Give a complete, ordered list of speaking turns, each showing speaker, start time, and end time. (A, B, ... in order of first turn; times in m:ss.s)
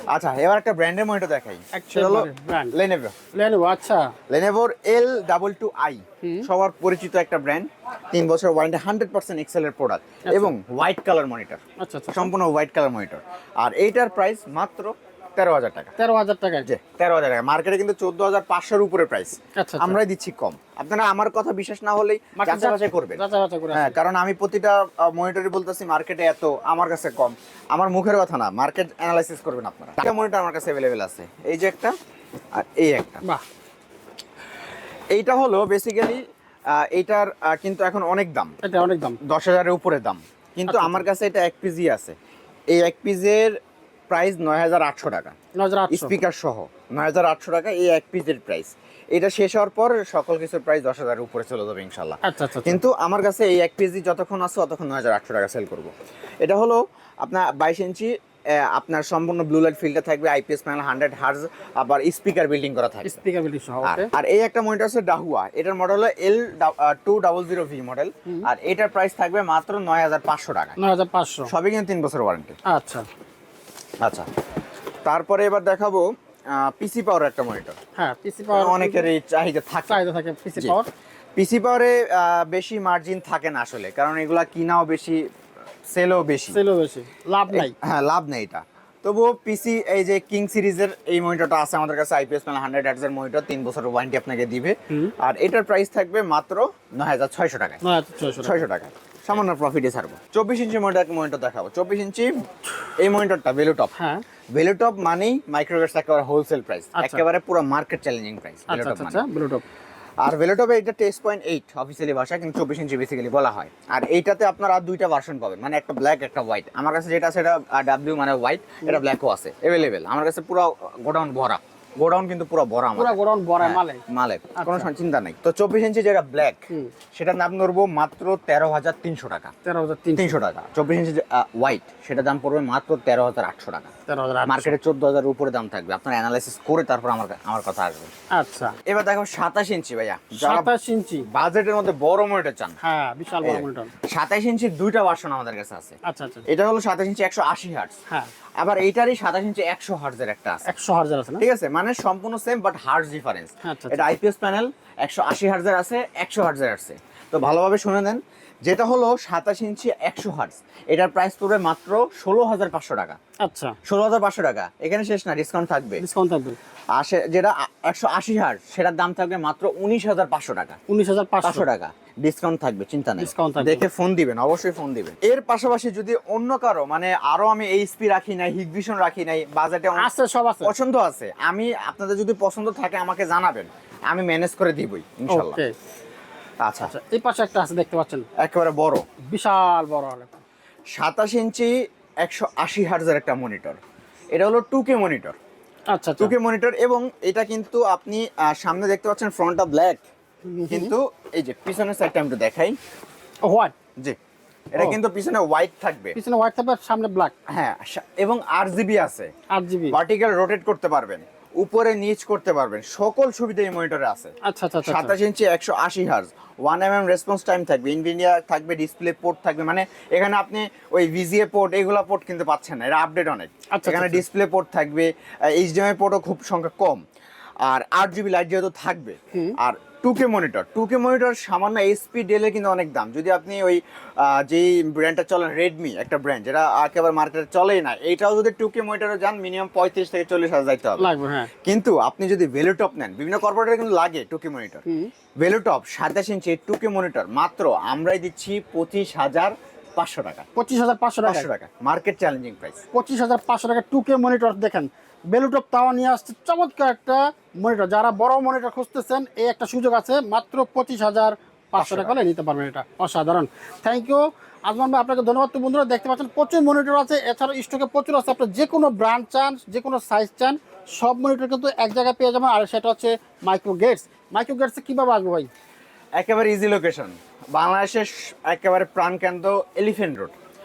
0:00.1-0:03.1 A
0:01.7-0:02.7 B
0:03.3-0:04.1 B
0:04.3-0:11.6 A
0:06.2-0:06.5 B
0:10.2-0:10.5 B
0:11.8-0:12.3 B
0:12.1-0:15.9 A
0:16.0-0:16.7 B
0:16.6-0:23.2 A
0:19.5-0:20.0 B
0:22.4-0:24.0 B
0:23.7-0:31.9 A
0:32.5-0:33.2 A
0:35.1-0:36.2 A
0:36.7-0:38.5 A
0:38.6-0:39.2 B
0:39.2-0:42.1 A
0:40.7-0:41.0 B
0:42.7-0:43.6 A
0:44.1-0:45.3 A
0:45.6-0:46.1 B
0:45.9-0:55.9 A
0:52.2-0:52.8 B
0:56.4-1:03.2 A
1:03.0-1:04.1 B
1:03.8-1:10.8 A
1:10.8-1:11.5 B
1:11.5-1:12.5 A
1:12.7-1:13.0 B
1:15.0-1:17.8 A
1:18.0-1:19.1 B
1:18.5-1:20.0 A
1:19.9-1:20.9 B
1:21.4-1:25.2 A
1:25.9-1:26.6 A
1:26.5-1:27.7 B
1:27.5-1:37.8 A
1:37.8-1:38.6 B
1:38.4-1:42.3 A
1:43.0-1:43.9 A
1:44.0-1:44.2 B
1:44.5-1:49.2 A
1:47.0-1:47.2 B
1:48.7-1:49.6 B
1:50.2-2:06.6 A
2:03.0-2:04.0 B
2:04.6-2:04.9 B
2:07.1-2:09.5 A
2:09.6-2:10.3 B
2:10.2-2:13.9 A
2:14.1-2:14.7 B
2:14.5-2:18.1 A
2:18.3-2:18.8 B
2:18.8-2:20.7 A
2:20.4-2:21.2 B
2:21.3-2:22.8 A
2:22.8-2:23.9 B
2:23.4-2:25.9 A
2:26.0-2:26.4 B
2:26.5-2:27.9 A
2:28.6-2:30.6 A
2:30.6-2:31.4 B
2:31.4-2:43.2 A
2:33.6-2:34.1 B
2:43.4-2:43.8 B
2:43.8-2:46.0 A
2:46.0-2:46.6 B
2:46.9-2:50.8 A
2:50.9-2:51.6 B
2:51.4-3:00.1 A
2:53.2-2:53.8 B
3:00.0-3:00.7 B
3:00.6-3:05.6 A
3:05.3-3:05.7 B
3:06.6-3:06.9 A
3:06.9-3:08.2 B
3:08.4-3:09.0 A
3:09.3-3:10.4 B
3:11.0-3:11.7 A
3:12.2-3:13.8 A
3:14.3-3:15.4 A
3:15.9-3:16.3 B
3:16.2-3:20.0 A
3:20.5-3:20.9 B
3:20.7-3:22.8 A
3:23.5-3:23.7 B
3:24.7-3:26.2 A
3:26.1-3:27.3 B
3:27.5-3:29.3 A
3:29.5-3:30.0 B
3:29.9-3:34.3 A
3:34.4-3:35.1 B
3:34.8-3:47.0 A
3:43.7-3:44.2 B
3:47.6-4:01.1 A
4:01.0-4:01.5 B
4:01.6-4:04.8 A
4:04.9-4:05.1 B
4:05.4-4:10.4 A
4:10.6-4:11.5 B
4:11.2-4:12.8 A
4:12.9-4:35.5 B
4:21.8-4:22.1 A
4:36.2-4:40.4 A